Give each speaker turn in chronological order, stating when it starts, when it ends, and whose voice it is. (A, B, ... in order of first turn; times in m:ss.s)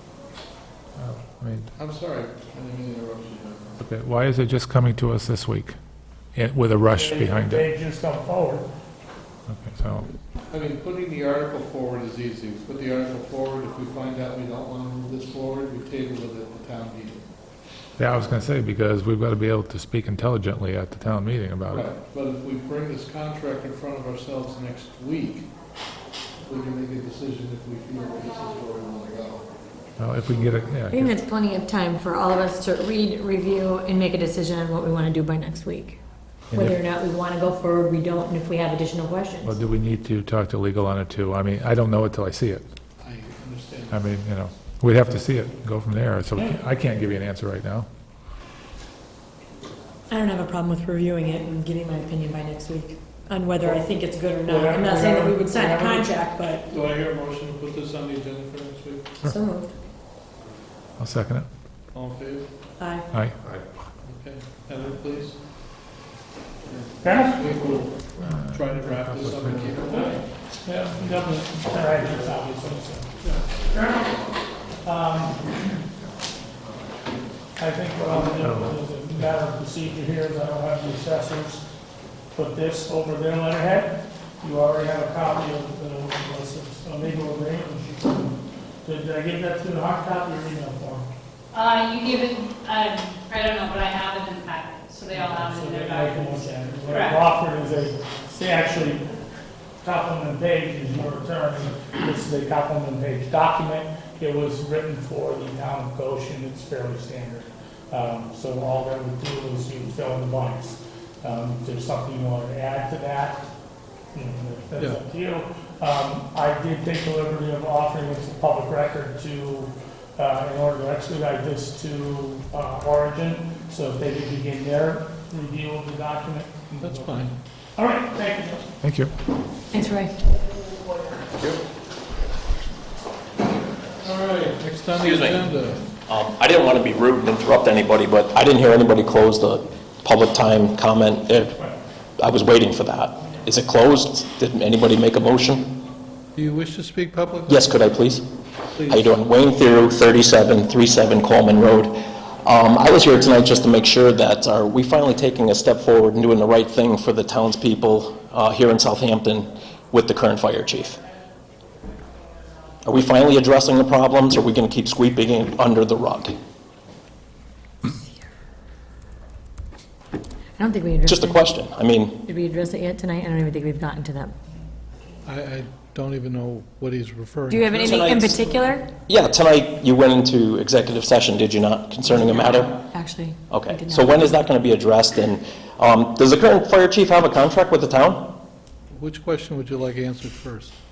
0:01.0-0:01.7 A
0:01.8-0:03.8 B
0:03.8-0:05.7 A
0:06.3-0:07.7 A
0:06.9-0:08.7 C
0:09.5-0:10.1 A
0:10.5-0:17.2 B
0:18.0-0:21.9 A
0:21.7-0:25.5 B
0:26.4-0:29.4 B
0:30.0-0:31.1 A
0:30.9-0:36.0 D
0:36.5-0:36.8 A
0:36.5-0:39.6 D
0:39.4-0:42.6 A
0:43.0-0:44.0 B
0:43.9-0:47.9 A
0:50.1-0:56.6 D
0:54.4-0:56.1 C
0:56.7-0:59.1 B
0:59.2-0:59.7 D
1:01.0-1:01.4 A
1:01.9-1:02.5 B
1:02.8-1:03.1 D
1:03.1-1:03.4 A
1:04.0-1:05.4 B
1:06.7-1:10.2 B
1:07.0-1:07.5 C
1:08.2-1:09.6 A
1:09.9-1:14.1 C
1:13.2-1:13.5 B
1:14.8-1:15.4 C
1:17.6-1:21.6 C
1:18.4-1:18.7 A
1:22.3-1:31.1 C
1:31.5-1:37.3 E
1:35.1-1:39.1 C
1:39.8-1:53.5 C
1:54.1-2:08.6 C
2:06.8-2:07.4 B
2:08.8-2:09.1 A
2:09.7-2:10.2 D
2:14.0-2:15.9 B
2:15.0-2:15.5 F
2:16.0-2:21.6 F
2:22.2-2:25.8 F
2:26.3-2:27.8 B
2:27.5-2:28.3 F
2:28.7-2:29.2 B
2:28.9-2:41.0 F
2:42.8-2:46.4 F
2:50.6-2:51.5 D
2:51.0-2:52.2 F
2:52.2-2:54.3 D
2:55.2-2:58.4 B
2:57.5-2:58.8 D
2:59.1-3:02.8 F
3:02.9-3:04.3 D
3:03.5-3:08.4 F
3:08.9-3:10.7 B